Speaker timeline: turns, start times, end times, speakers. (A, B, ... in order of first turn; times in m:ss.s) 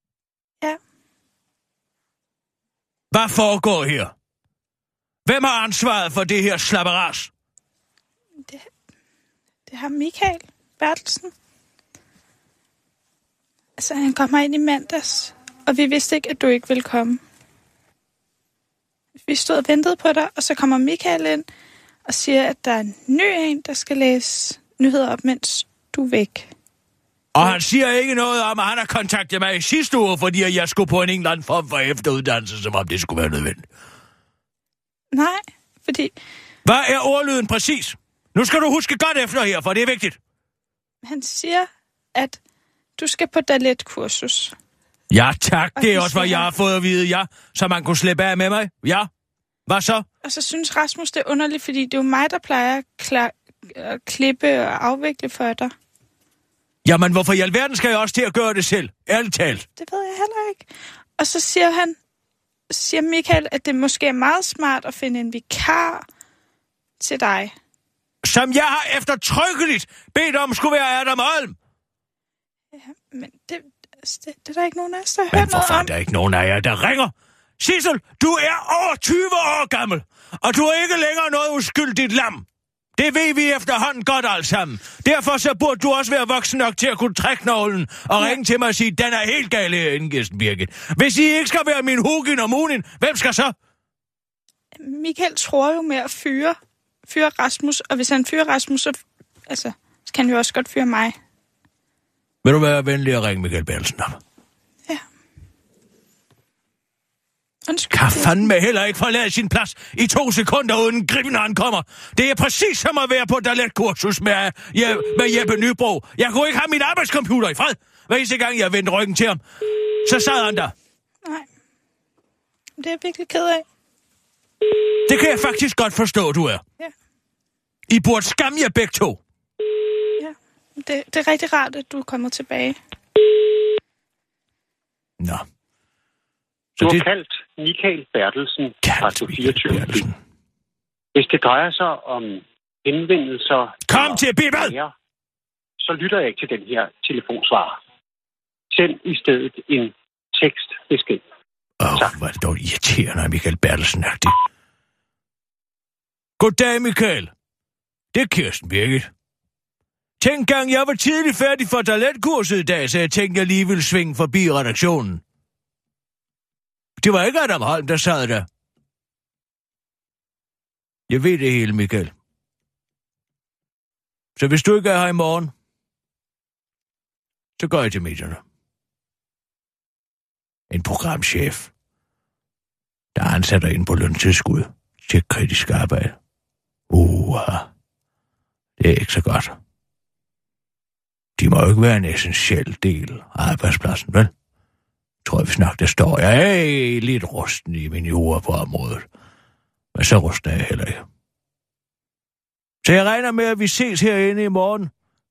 0:03.1-0:04.1 A
0:05.2-0:07.3 A
0:09.7-0:11.3 B
0:13.8-0:17.2 B
0:19.2-0:21.4 B
0:22.0-0:26.5 B
0:27.3-0:33.6 A
0:35.1-0:36.1 B
0:36.6-0:40.2 A
0:41.0-0:42.4 B
0:43.0-0:44.5 B
0:45.1-0:49.1 A
0:45.8-0:46.5 B
0:49.7-0:50.0 A
0:50.2-0:55.7 B
0:56.8-0:59.6 A
0:59.8-1:02.0 B
1:02.7-1:06.0 B
1:07.0-1:07.5 B
1:08.2-1:11.6 A
1:12.7-1:15.9 B
1:15.3-1:22.4 A
1:23.0-1:33.5 A
1:34.8-1:36.6 B
1:37.1-1:39.0 B
1:39.5-1:41.1 B
1:42.4-1:44.2 A
1:47.7-1:48.5 B
1:47.9-1:59.4 A
2:00.0-2:00.7 A
2:02.8-2:03.6 B
2:05.1-2:06.6 A
2:07.9-2:09.2 A
2:10.2-2:12.8 B
2:15.2-2:15.4 A
2:16.8-2:17.0 A
2:16.8-2:20.0 C
2:18.8-2:20.1 A
2:21.1-2:24.9 C
2:23.9-2:24.7 A
2:25.8-2:27.8 C
2:28.7-2:31.2 C
2:31.8-2:34.4 A
2:36.4-2:37.3 A
2:38.1-2:39.1 A
2:40.2-2:45.2 A
2:47.0-2:48.5 A
2:51.1-2:52.1 A
2:54.4-2:55.5 A
2:57.6-2:58.4 A
3:00.7-3:01.7 A
3:03.2-3:06.2 A
3:06.9-3:07.7 A
3:08.8-3:09.6 A
3:11.4-3:14.3 A
3:15.2-3:19.0 A
3:19.9-3:21.0 A
3:22.8-3:24.9 A